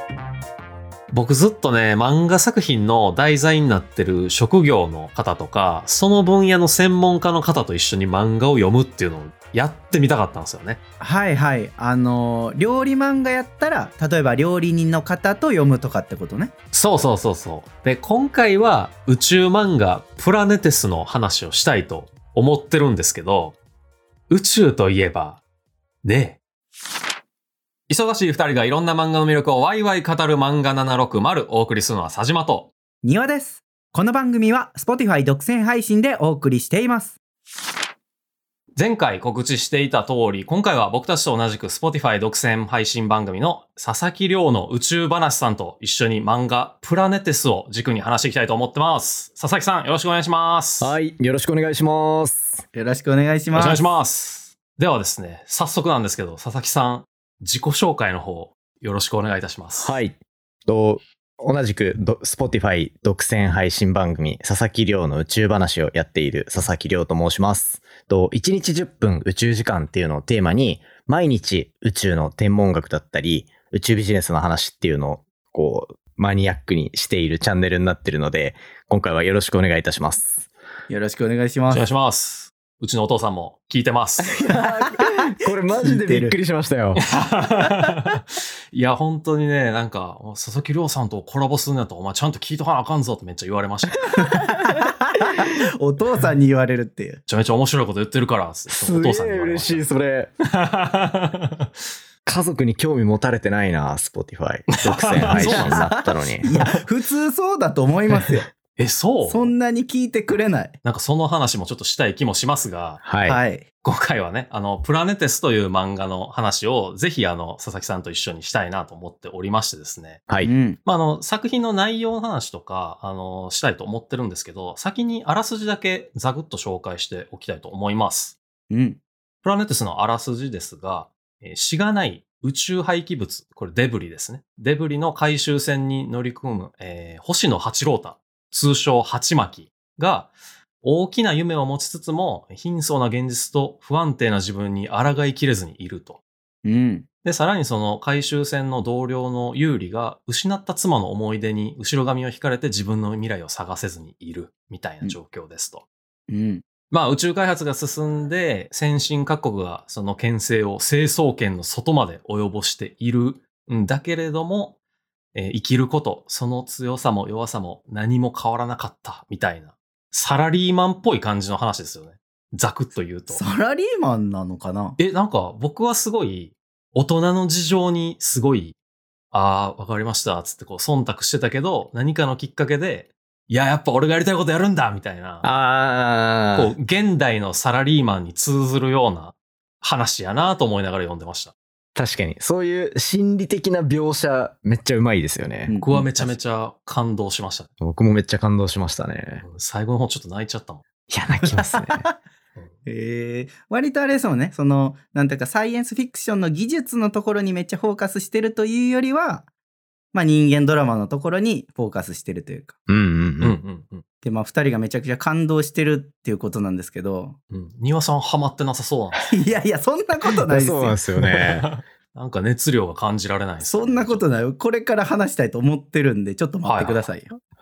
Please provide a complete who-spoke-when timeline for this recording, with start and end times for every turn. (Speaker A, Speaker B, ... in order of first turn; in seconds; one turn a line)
Speaker A: 1.1-10.8
Speaker B: 11.0-16.5
Speaker A: 16.7-23.6
Speaker A: 24.3-25.4
Speaker A: 26.0-26.4
Speaker A: 27.9-32.7
Speaker B: 33.0-37.2
Speaker A: 38.8-50.9
Speaker C: 50.8-52.6
Speaker B: 52.7-53.8
Speaker A: 53.5-60.0
Speaker C: 59.8-80.5
Speaker B: 80.9-81.8
Speaker A: 81.7-84.4
Speaker C: 84.4-87.0
Speaker B: 84.5-86.3
Speaker A: 87.0-94.1
Speaker B: 94.1-97.2
Speaker A: 97.3-99.9
Speaker C: 98.7-100.3
Speaker A: 100.5-101.7
Speaker C: 102.2-106.5
Speaker A: 104.8-105.8
Speaker B: 105.3-108.5
Speaker A: 108.8-109.5
Speaker B: 109.3-110.7
Speaker A: 110.8-113.0
Speaker C: 113.0-113.4
Speaker B: 113.2-113.7
Speaker A: 113.8-120.3
Speaker B: 120.4-120.8
Speaker A: 120.8-128.4
Speaker B: 128.7-129.0
Speaker A: 129.4-146.2
Speaker B: 146.6-147.0
Speaker A: 147.2-155.8
Speaker B: 156.3-156.6
Speaker A: 156.9-164.8
Speaker A: 165.3-173.4
Speaker B: 173.3-175.0
Speaker A: 175.0-178.7
Speaker A: 179.3-185.5
Speaker C: 185.4-186.7
Speaker A: 186.5-191.5
Speaker C: 191.9-196.3
Speaker B: 195.7-196.1
Speaker A: 195.8-197.7
Speaker C: 197.8-199.4
Speaker A: 199.4-200.8
Speaker C: 201.1-202.0
Speaker B: 201.6-202.1
Speaker B: 202.8-209.4
Speaker B: 210.1-212.7
Speaker C: 212.9-213.6
Speaker A: 213.4-214.0
Speaker B: 214.2-217.4
Speaker A: 217.5-219.4
Speaker B: 219.3-221.0
Speaker C: 220.5-221.7
Speaker A: 221.3-224.2
Speaker B: 223.7-227.4
Speaker A: 226.6-227.0